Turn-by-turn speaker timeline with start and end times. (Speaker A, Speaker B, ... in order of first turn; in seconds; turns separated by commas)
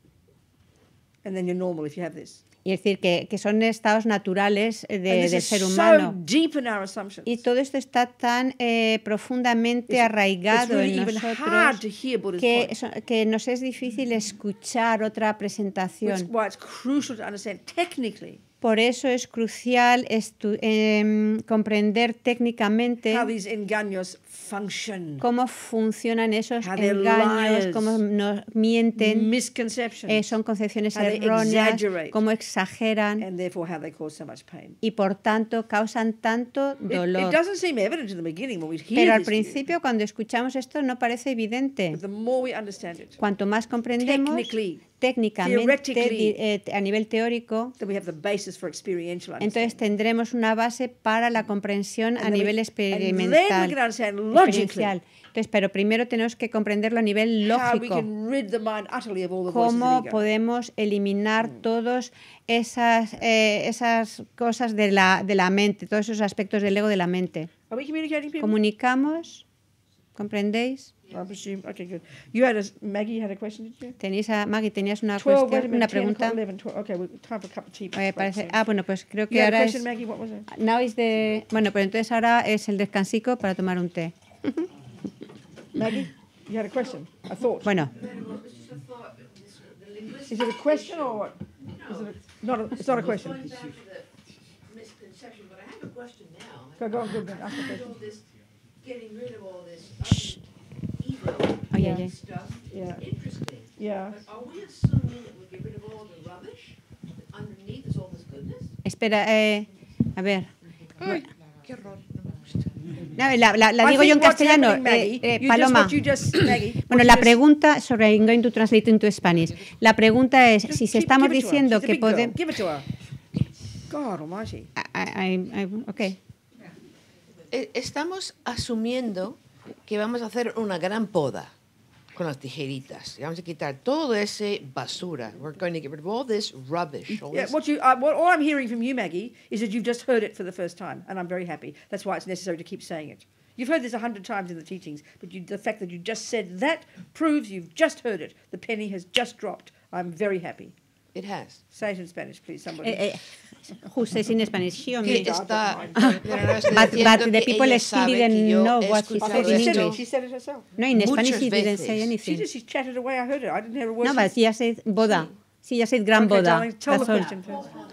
Speaker A: 1.2-2.4, Speaker B: 2.6-6.2, Speaker A: 5.1-7.4, Speaker B: 7.3-11.8, Speaker A: 9.9-12.7, Speaker B: 12.4-16.3, Speaker A: 16.0-18.4, Speaker B: 18.6-23.3, Speaker A: 23.1-25.2, Speaker B: 25.2-29.3, Speaker A: 26.6-28.0, Speaker A: 29.0-30.3, Speaker B: 30.1-33.3, Speaker A: 30.9-32.2, Speaker A: 33.2-34.8, Speaker B: 34.8-37.4, Speaker A: 36.9-39.6, Speaker B: 39.0-42.0, Speaker A: 41.9-43.2, Speaker B: 43.2-47.8, Speaker A: 44.0-44.8, Speaker A: 45.4-46.4, Speaker A: 47.8-49.8, Speaker B: 49.4-53.8, Speaker A: 52.2-55.0, Speaker B: 54.3-58.1, Speaker A: 57.5-60.2, Speaker B: 59.5-67.5, Speaker A: 67.7-68.6, Speaker B: 68.4-69.5, Speaker B: 70.2-70.9, Speaker A: 71.1-74.0, Speaker B: 74.0-76.4, Speaker A: 75.2-78.6, Speaker B: 77.9-79.9, Speaker A: 79.3-80.5, Speaker B: 80.5-84.7, Speaker A: 85.7-87.7, Speaker B: 87.6-88.0, Speaker C: 87.9-94.1, Speaker A: 90.3-93.5, Speaker C: 94.7-98.3, Speaker A: 96.8-97.9, Speaker C: 98.8-100.4, Speaker C: 101.0-108.8, Speaker B: 101.7-102.1, Speaker A: 101.8-102.0, Speaker A: 102.7-103.0, Speaker A: 103.8-104.2, Speaker B: 108.8-110.5, Speaker D: 111.0-111.9, Speaker C: 111.7-112.7, Speaker B: 113.2-116.0, Speaker A: 113.8-117.4, Speaker B: 116.8-122.4, Speaker A: 120.7-122.8, Speaker A: 123.9-124.7, Speaker B: 124.8-126.2, Speaker D: 127.5-131.5, Speaker D: 132.1-137.5, Speaker A: 137.3-150.7, Speaker D: 151.1-151.6, Speaker A: 151.7-153.0, Speaker B: 152.8-155.4, Speaker A: 155.0-157.2, Speaker D: 155.0-160.0, Speaker B: 156.7-160.0, Speaker A: 159.2-160.7, Speaker B: 160.8-162.5, Speaker D: 160.9-162.1, Speaker A: 162.2-164.3, Speaker B: 164.0-167.3, Speaker A: 166.2-167.6